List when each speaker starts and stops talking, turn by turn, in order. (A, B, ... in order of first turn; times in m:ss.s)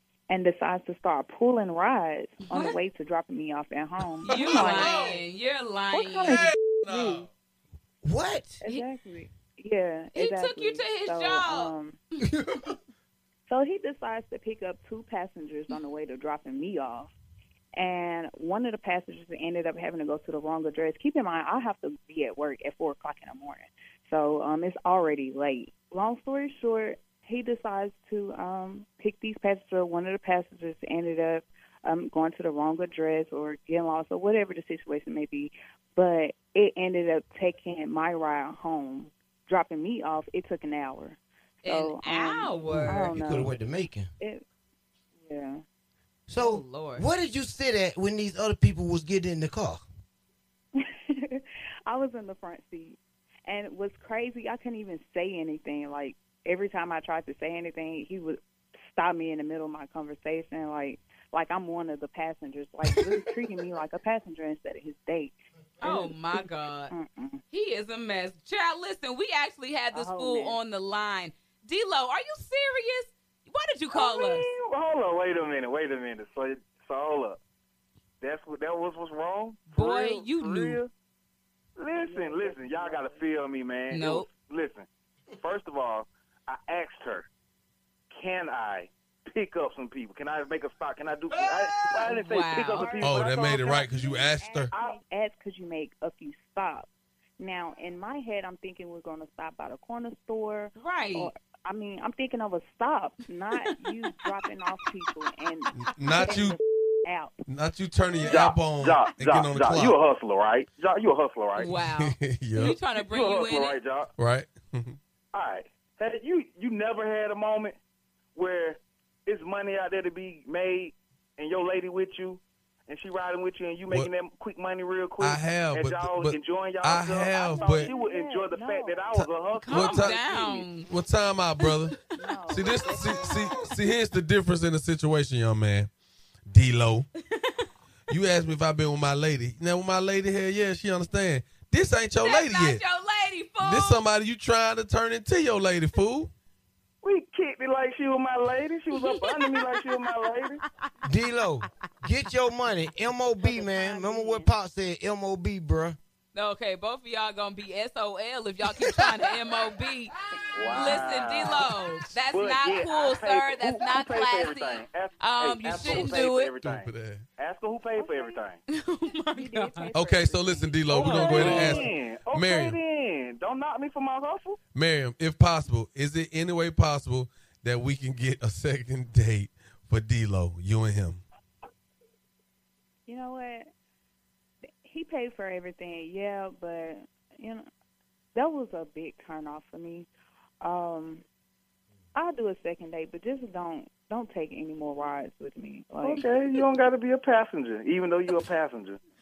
0:00.3-0:05.1 A
0:02.5-0:02.8 B
0:04.2-0:06.5 B
0:05.9-0:07.3 A
0:06.3-0:07.3 C
0:08.0-0:08.6 D
0:08.6-0:12.0 A
0:10.1-0:11.7 B
0:13.5-0:17.1 A
0:17.8-0:43.6 A
0:41.6-0:43.1 B
0:42.7-0:44.1 D
0:45.2-0:45.6 A
0:46.3-0:49.8 D
0:46.4-0:47.1 B
0:50.8-1:07.4 A
1:05.8-1:06.9 B
1:07.5-1:14.5 B
1:09.9-1:10.6 A
1:13.9-1:17.4 E
1:18.2-1:20.9 E
1:19.7-1:20.8 B
1:21.8-1:27.3 E
1:22.0-1:23.3 A
1:23.9-1:24.3 B
1:28.1-1:33.6 E
1:32.0-1:32.9 B
1:32.8-1:36.9 A
1:33.0-1:34.7 C
1:34.7-1:35.0 E
1:37.4-1:47.4 A
1:40.8-1:41.3 B
1:45.8-1:46.6 C
1:47.5-1:50.0 C
1:48.2-1:51.7 E
1:51.6-1:53.8 B
1:51.8-1:52.8 C
1:53.0-1:54.1 E
1:54.2-1:55.0 C
1:55.3-1:57.8 E
1:58.4-2:10.2 E
2:05.2-2:07.9 C
2:07.4-2:09.2 A
2:09.2-2:10.2 C
2:09.5-2:10.9 B
2:10.1-2:10.7 A
2:10.9-2:12.0 C
2:12.1-2:13.6 A
2:12.5-2:15.9 C
2:13.0-2:13.4 B
2:16.5-2:17.1 C
2:18.1-2:22.8 C
2:22.2-2:24.0 B
2:23.6-2:26.3 C
2:27.0-2:30.6 E
2:29.0-2:29.6 B
2:31.0-2:36.0 D
2:33.4-2:34.5 A
2:36.3-2:46.5 B
2:40.5-2:41.7 E
2:40.7-2:41.0 A
2:42.3-2:48.6 E
2:45.8-2:47.2 C
2:47.9-2:48.4 A
2:48.7-2:49.9 B
2:49.3-2:52.0 A
2:49.9-2:52.8 C
2:50.9-2:54.6 E
2:54.8-3:01.2 C
3:03.1-3:03.7 A
3:04.8-3:07.6 A
3:08.4-3:10.1 A
3:10.6-3:11.2 A
3:12.1-3:16.3 A
3:16.0-3:19.0 E